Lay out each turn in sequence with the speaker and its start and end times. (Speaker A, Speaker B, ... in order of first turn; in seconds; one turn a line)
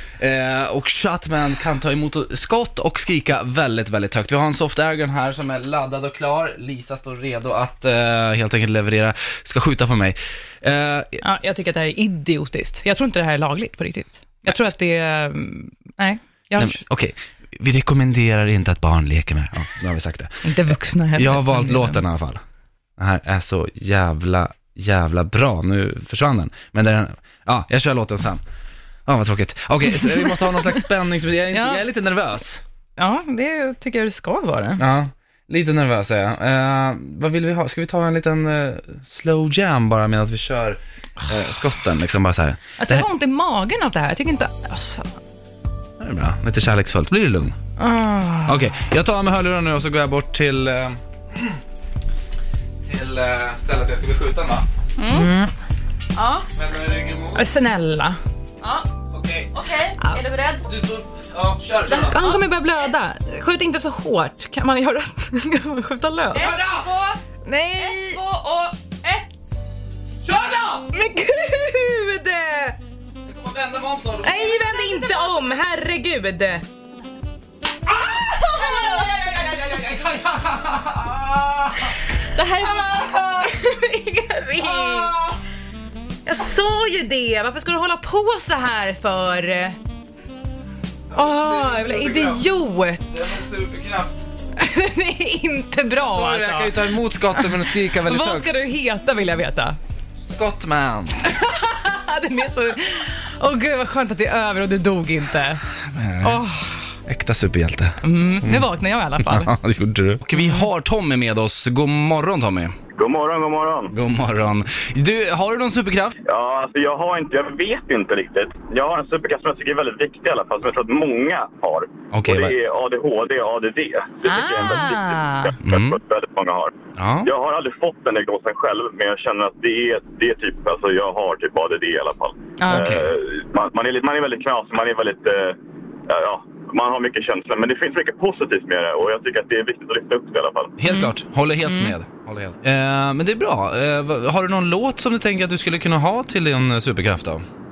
Speaker A: 0.2-11.2
Speaker B: 11.2-16.8
Speaker A: 16.6-20.6
Speaker B: 20.4-22.0
Speaker A: 21.2-22.4
Speaker A: 23.0-28.4
Speaker A: 29.1-32.6
Speaker B: 31.5-31.8
Speaker B: 33.0-34.8
Speaker A: 34.8-43.1
Speaker B: 42.8-45.1
Speaker A: 46.0-47.5
Speaker B: 47.8-48.6
Speaker A: 48.5-51.6
Speaker A: 52.8-54.6
Speaker C: 55.0-55.3
Speaker B: 55.1-55.5
Speaker C: 56.1-56.5
Speaker A: 56.5-57.5
Speaker B: 57.4-58.2
Speaker C: 58.6-58.9
Speaker A: 59.1-59.5
Speaker C: 59.5-60.7
Speaker A: 60.6-62.2
Speaker C: 61.9-62.9
Speaker B: 62.0-66.5
Speaker C: 66.3-67.2
Speaker A: 66.3-66.9
Speaker B: 67.5-68.2
Speaker C: 67.7-69.3
Speaker A: 70.2-70.9
Speaker B: 70.9-72.8
Speaker A: 73.3-74.6
Speaker B: 74.2-76.6
Speaker C: 74.4-75.3
Speaker A: 77.9-82.0
Speaker C: 82.3-83.2
Speaker A: 82.5-83.6
Speaker B: 83.3-85.1
Speaker A: 84.5-85.4
Speaker B: 86.3-89.8
Speaker A: 91.1-92.5
Speaker B: 91.1-93.2
Speaker A: 93.1-94.2
Speaker B: 94.6-99.8
Speaker A: 96.0-98.5
Speaker A: 100.2-101.2
Speaker B: 101.2-105.6
Speaker A: 105.8-106.4
Speaker B: 106.2-106.9
Speaker A: 107.1-112.7
Speaker B: 108.0-109.5
Speaker B: 110.3-110.7
Speaker D: 112.9-113.9
Speaker A: 113.9-116.2
Speaker D: 116.2-135.6
Speaker A: 122.1-122.5
Speaker B: 124.2-125.5
Speaker A: 125.6-126.0
Speaker A: 127.0-127.3
Speaker B: 132.6-132.9
Speaker A: 132.7-133.1
Speaker D: 136.1-140.7
Speaker A: 140.8-147.4
Speaker B: 141.7-141.9